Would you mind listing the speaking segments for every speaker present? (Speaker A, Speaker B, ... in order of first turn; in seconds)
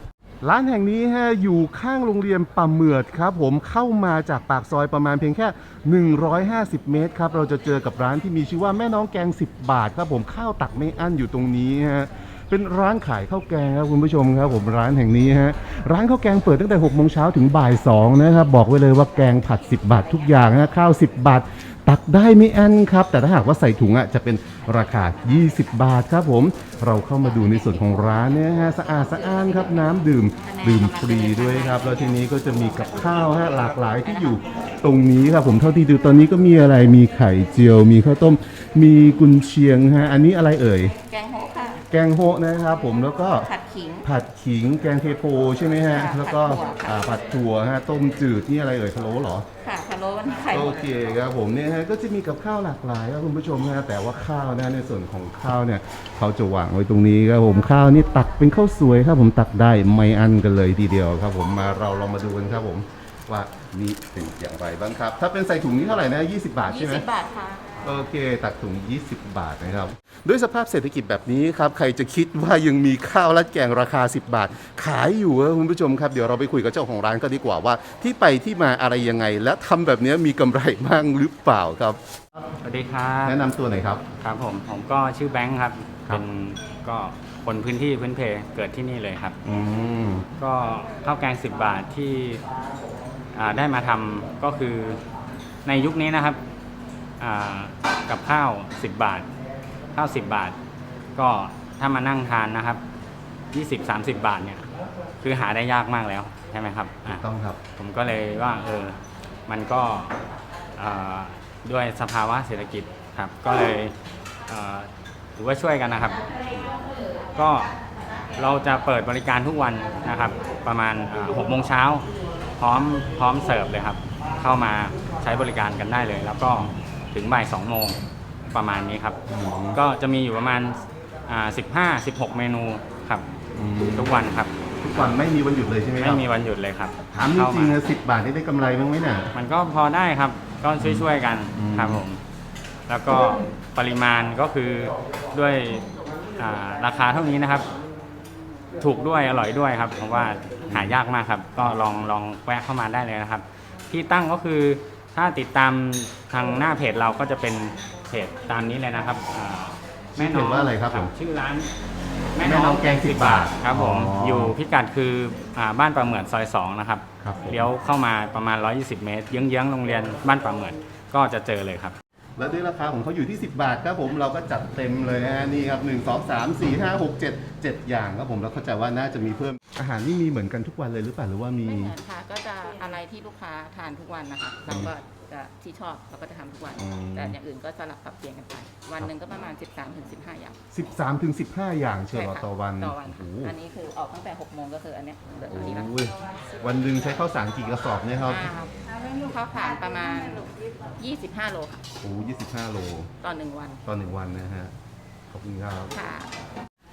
Speaker A: 0.4-40.9, 41.9-43.5, 44.0-49.5, 50.5-67.0, 67.8-82.0, 83.2-84.0, 89.4-90.3, 107.0-107.6, 129.3-129.8, 133.5-134.2, 134.8-136.2, 137.1-139.3, 140.8-142.0, 150.7-151.0, 160.2-161.1, 162.4-164.5, 167.2-167.7, 172.4-181.9, 186.8-187.3, 190.7-193.5, 195.5-198.4, 202.0-203.1, 203.8-204.7, 205.3-205.9
Speaker B: 27.4-27.9, 29.2-29.6, 30.4-34.4, 41.0-41.8, 43.3-44.1, 45.9-47.0, 49.6-51.1, 66.6-67.8, 181.6-190.6, 192.1-195.9, 198.3-201.8, 203.2-203.8, 205.9-206.3
Speaker C: 82.6-83.4, 84.2-89.4, 90.4-92.4, 93.3-95.0, 95.6-96.4, 97.2-99.3, 99.9-100.5, 101.2-102.8, 103.5-104.7, 105.2-107.2, 107.8-109.0, 109.5-110.1, 110.8-113.9, 114.5-116.2, 117.3-117.7, 118.3-122.1, 122.6-128.0, 128.5-129.2, 129.7-133.3, 133.8-135.3, 135.9-137.8, 139.3-142.2, 142.9-147.7, 148.8-161.7, 162.3-171.9